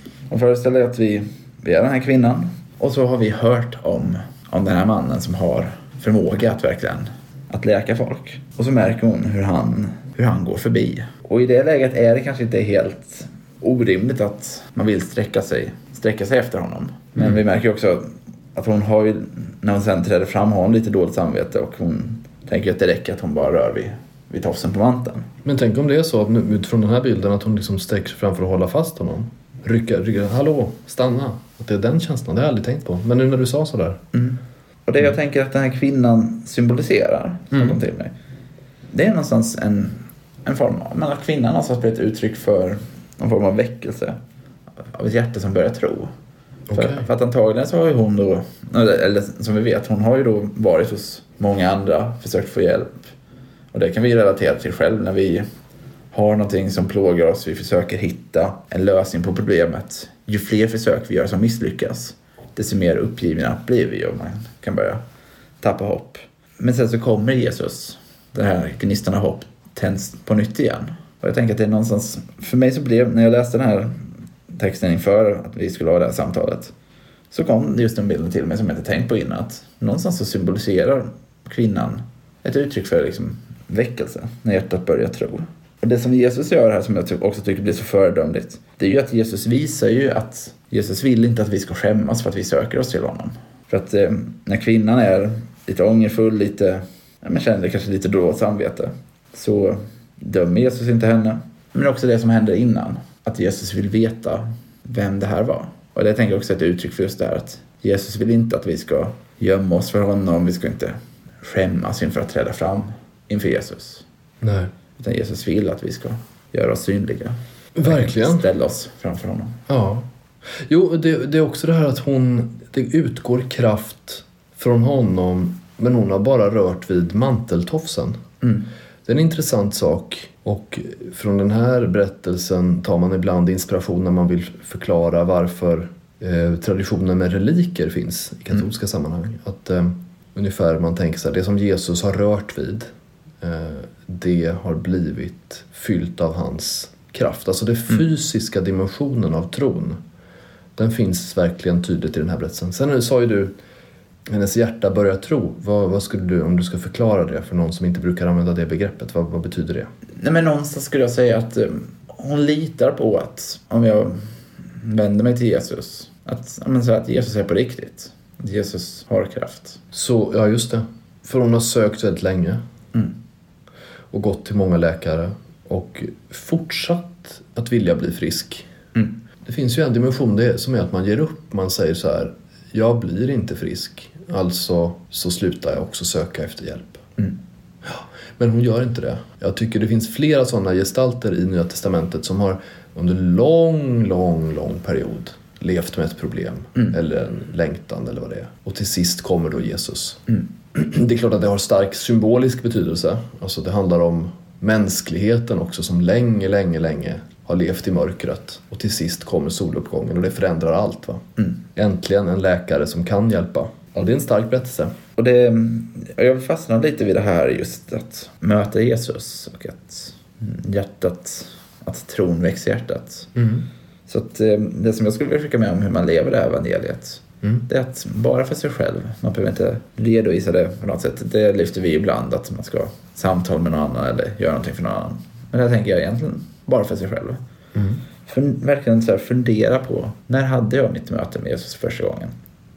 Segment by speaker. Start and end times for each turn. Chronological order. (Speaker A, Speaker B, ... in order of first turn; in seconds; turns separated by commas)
Speaker A: 0.3-25.3, Speaker B: 25.4-34.0, Speaker A: 34.1-38.1, Speaker A: 38.9-44.2, Speaker A: 44.8-46.1, Speaker B: 46.7-47.1, Speaker A: 46.7-53.1, Speaker A: 53.7-55.5, Speaker A: 56.1-65.0, Speaker A: 65.6-76.7, Speaker A: 77.3-114.0, Speaker B: 114.4-114.7, Speaker A: 115.0-119.6, Speaker B: 117.8-118.5, Speaker B: 119.7-120.1, Speaker B: 120.7-128.2, Speaker B: 129.1-142.9, Speaker B: 143.4-150.0, Speaker B: 150.8-153.5, Speaker B: 154.3-159.9, Speaker A: 160.2-169.8, Speaker B: 169.9-172.6, Speaker B: 174.1-178.7, Speaker B: 179.5-187.1, Speaker B: 187.9-214.9, Speaker A: 215.2-223.3, Speaker B: 223.3-223.7, Speaker A: 224.1-237.4, Speaker B: 237.8-238.0, Speaker A: 238.3-242.3